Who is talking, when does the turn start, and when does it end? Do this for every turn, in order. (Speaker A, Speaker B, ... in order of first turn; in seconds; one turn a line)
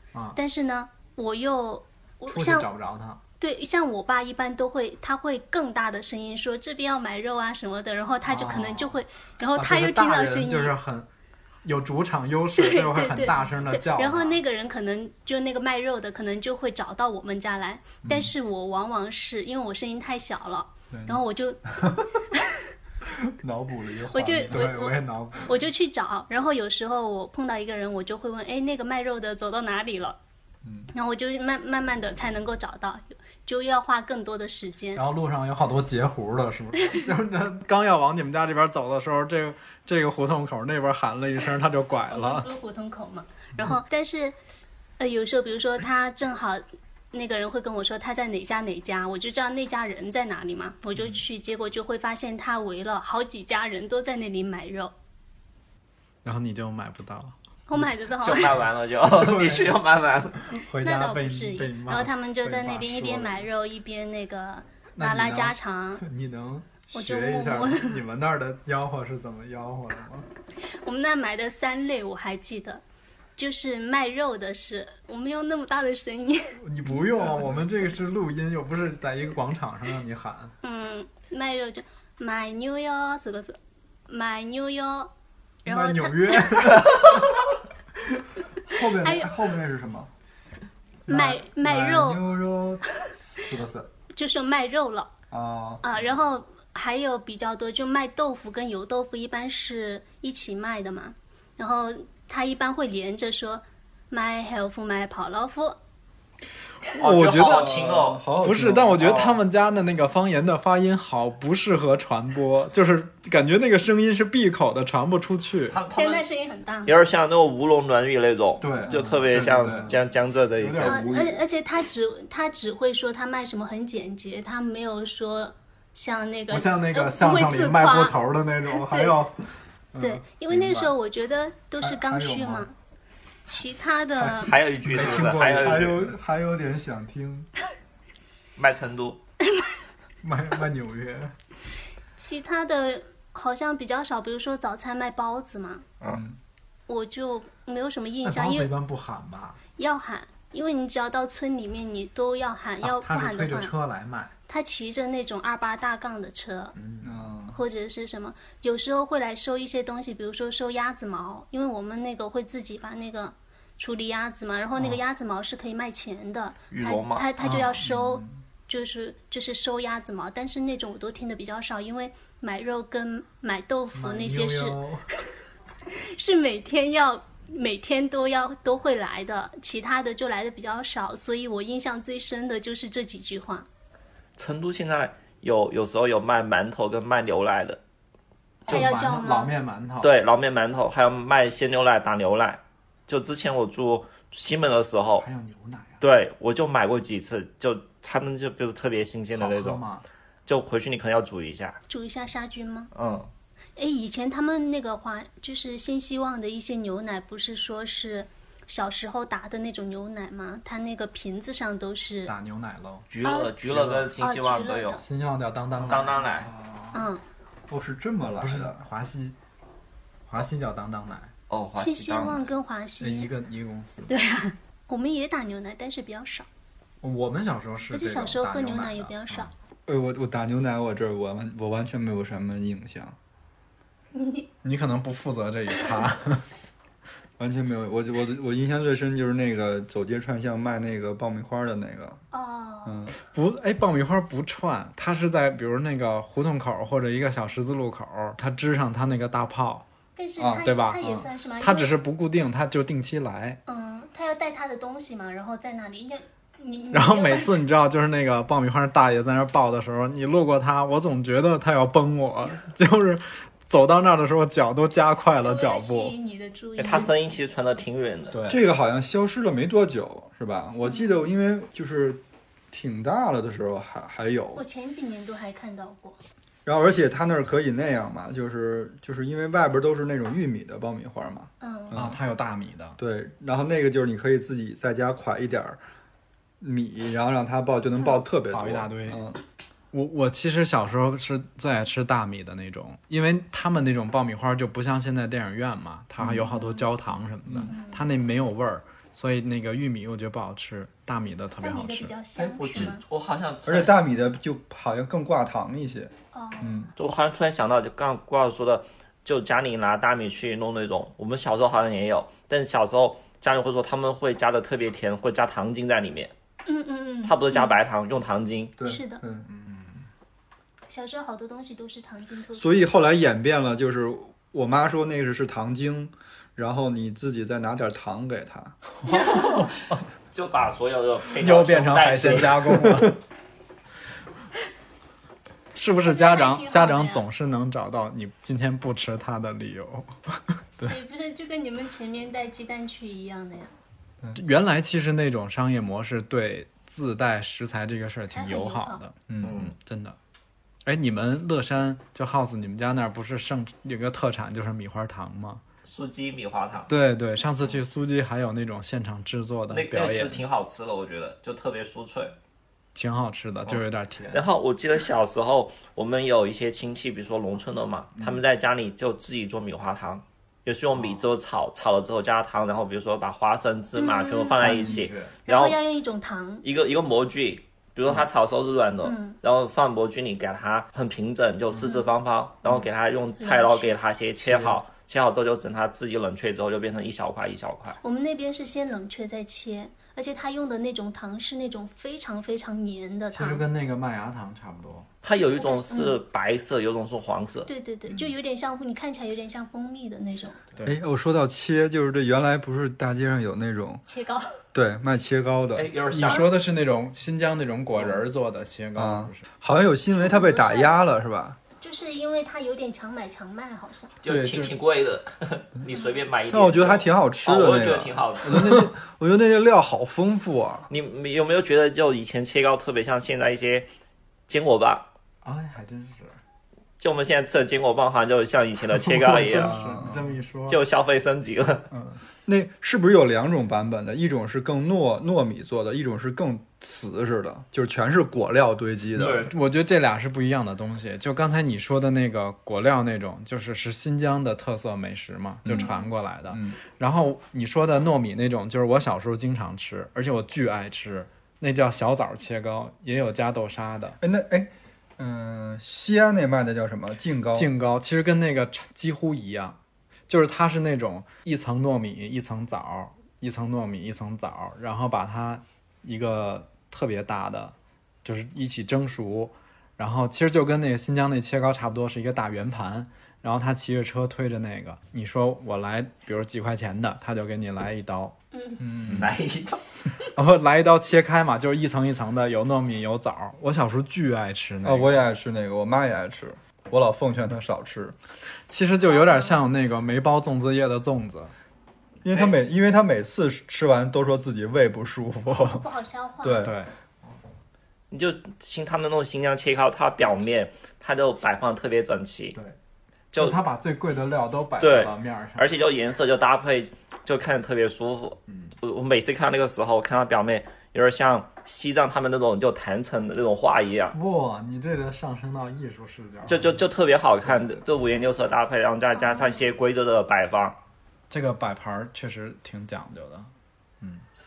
Speaker A: 0.3-2.7
Speaker B: 2.3-3.2
Speaker A: 3.4-10.7
Speaker B: 8.3-9.0
Speaker B: 9.5-11.1
Speaker B: 11.6-14.4
Speaker A: 12.6-22.6
Speaker C: 18.0-18.3
Speaker C: 20.9-22.1
Speaker C: 23.1-24.7
Speaker A: 24.1-30.2
Speaker B: 24.5-25.6
Speaker C: 30.6-30.9
Speaker A: 30.9-35.0
Speaker B: 34.9-42.5
Speaker A: 42.1-44.4
Speaker A: 45.0-54.9
Speaker B: 56.2-57.8
Speaker A: 57.7-58.6
Speaker D: 58.2-60.5
Speaker B: 59.0-59.8
Speaker B: 60.5-63.5
Speaker A: 60.8-66.0
Speaker B: 65.0-70.2
Speaker A: 66.9-68.0
Speaker A: 70.6-72.8
Speaker A: 73.4-76.6
Speaker B: 76.6-80.5
Speaker C: 77.0-77.6
Speaker A: 80.6-85.1
Speaker B: 85.6-87.2
Speaker A: 85.7-86.9
Speaker C: 88.6-90.1
Speaker A: 88.7-89.4
Speaker A: 91.1-92.3
Speaker C: 91.1-93.9
Speaker A: 94.1-95.1
Speaker C: 95.3-96.0
Speaker A: 95.8-105.8
Speaker B: 106.9-107.7
Speaker D: 107.0-108.2
Speaker C: 107.4-109.4
Speaker B: 108.4-115.8
Speaker D: 115.7-116.2
Speaker A: 115.9-116.9
Speaker D: 116.8-121.1
Speaker B: 118.6-120.0
Speaker C: 118.9-120.0
Speaker B: 120.6-121.2
Speaker C: 120.8-121.3
Speaker A: 120.8-128.2
Speaker B: 126.5-129.4
Speaker A: 128.7-129.2
Speaker B: 129.9-130.9
Speaker A: 130.0-132.7
Speaker C: 131.8-132.7
Speaker A: 133.4-134.5
Speaker D: 134.3-136.1
Speaker C: 134.8-137.5
Speaker B: 134.9-135.7
Speaker D: 138.6-139.2
Speaker B: 140.2-141.3
Speaker A: 142.2-145.8
Speaker C: 146.1-146.4
Speaker A: 146.9-148.7
Speaker B: 148.2-149.6
Speaker A: 149.8-153.7
Speaker B: 152.8-154.3
Speaker A: 154.5-156.7
Speaker B: 156.7-157.3
Speaker C: 157.0-157.6
Speaker A: 157.5-174.8
Speaker D: 166.7-167.3
Speaker B: 167.4-167.8
Speaker C: 167.5-168.3
Speaker B: 173.9-175.0
Speaker A: 175.9-183.7
Speaker D: 184.4-187.8
Speaker A: 188.7-189.5
Speaker B: 188.7-190.1
Speaker D: 190.0-195.2
Speaker B: 195.2-196.0
Speaker D: 196.0-199.8
Speaker B: 199.3-200.0
Speaker D: 200.4-201.8
Speaker A: 201.9-202.9
Speaker D: 202.9-203.3
Speaker A: 203.8-212.3
Speaker B: 212.2-213.1
Speaker D: 213.1-215.0
Speaker A: 213.2-213.5
Speaker B: 213.7-214.1
Speaker A: 214.2-215.0
Speaker B: 215.0-217.0
Speaker D: 215.8-216.5
Speaker A: 216.9-217.2
Speaker C: 217.7-218.8
Speaker B: 218.4-219.3
Speaker B: 220.3-221.3
Speaker D: 221.5-222.5
Speaker A: 221.8-223.3
Speaker B: 223.0-224.1
Speaker A: 224.1-226.5
Speaker B: 227.0-229.5
Speaker A: 227.9-229.5
Speaker C: 229.9-233.2
Speaker A: 234.1-234.5
Speaker B: 234.6-236.5
Speaker C: 237.4-242.2
Speaker A: 242.3-243.0
Speaker C: 242.8-243.1
Speaker B: 243.2-249.8
Speaker A: 250.2-251.9
Speaker C: 250.4-251.1
Speaker B: 250.6-253.6
Speaker A: 253.7-257.6
Speaker B: 256.9-266.1
Speaker A: 265.4-267.1
Speaker D: 266.8-268.4
Speaker B: 268.3-268.6
Speaker C: 268.5-274.6
Speaker A: 270.8-271.1
Speaker A: 274.5-276.2
Speaker C: 276.6-282.2
Speaker A: 281.6-282.0
Speaker B: 281.9-283.0
Speaker C: 283.0-285.8
Speaker C: 286.6-289.4
Speaker B: 288.5-289.2
Speaker B: 289.9-302.1
Speaker C: 296.2-296.5
Speaker A: 296.4-296.9
Speaker C: 297.4-297.7
Speaker A: 297.7-298.1
Speaker A: 301.6-303.0
Speaker D: 302.4-304.0
Speaker C: 303.6-306.9
Speaker A: 306.3-306.9
Speaker D: 307.0-316.3
Speaker A: 316.6-317.8
Speaker D: 317.2-318.7
Speaker C: 318.8-319.5
Speaker A: 318.8-319.2
Speaker B: 319.5-320.0
Speaker A: 320.9-322.9
Speaker C: 322.5-328.8
Speaker D: 329.1-329.7
Speaker A: 329.1-329.5
Speaker D: 330.3-332.9
Speaker B: 331.4-333.2
Speaker C: 332.2-333.1
Speaker B: 335.7-340.4
Speaker A: 336.0-337.2
Speaker A: 340.8-343.7
Speaker B: 344.3-350.2
Speaker A: 348.3-349.0
Speaker C: 349.3-349.7
Speaker D: 349.4-349.7
Speaker B: 350.8-355.6
Speaker D: 355.8-356.9
Speaker B: 356.9-360.4
Speaker D: 359.7-362.4
Speaker B: 362.9-364.4
Speaker D: 363.6-375.8
Speaker A: 373.9-376.6
Speaker B: 374.6-375.3
Speaker D: 376.6-388.0
Speaker A: 379.0-379.4
Speaker A: 383.4-383.9
Speaker B: 384.4-384.8
Speaker A: 388.0-393.6
Speaker B: 393.3-395.1
Speaker D: 395.2-397.7
Speaker A: 395.5-396.2
Speaker A: 397.7-400.6
Speaker C: 400.8-404.0
Speaker A: 404.1-404.5
Speaker C: 404.7-405.9
Speaker D: 405.7-406.5
Speaker B: 406.1-409.4
Speaker D: 407.9-408.2
Speaker C: 408.9-411.6
Speaker A: 410.1-411.0
Speaker A: 411.8-414.1
Speaker D: 414.2-418.7
Speaker B: 414.2-414.7
Speaker C: 416.5-420.9
Speaker D: 420.9-423.9
Speaker D: 424.5-425.1
Speaker B: 425.4-426.4
Speaker D: 427.0-429.8
Speaker B: 428.9-430.8
Speaker C: 429.5-430.3
Speaker D: 430.7-431.9
Speaker C: 431.9-439.5
Speaker D: 439.2-439.5
Speaker B: 439.2-454.2
Speaker C: 445.6-445.9
Speaker A: 445.7-446.1
Speaker C: 446.5-446.8
Speaker C: 454.2-457.7
Speaker B: 457.5-478.4
Speaker A: 478.5-478.8
Speaker C: 478.8-479.3
Speaker B: 479.1-479.3
Speaker D: 479.1-479.8
Speaker B: 480.3-485.1
Speaker C: 484.8-488.1
Speaker B: 488.7-491.5
Speaker A: 489.0-489.6
Speaker C: 492.2-495.9
Speaker A: 495.8-496.7
Speaker C: 496.4-496.8
Speaker B: 496.6-496.9
Speaker D: 498.1-502.6
Speaker D: 503.3-503.6
Speaker B: 503.3-505.7
Speaker D: 504.8-514.1
Speaker B: 508.5-508.7
Speaker B: 514.1-516.8
Speaker D: 516.5-520.8
Speaker B: 517.4-517.8
Speaker A: 519.1-519.6
Speaker B: 521.3-524.2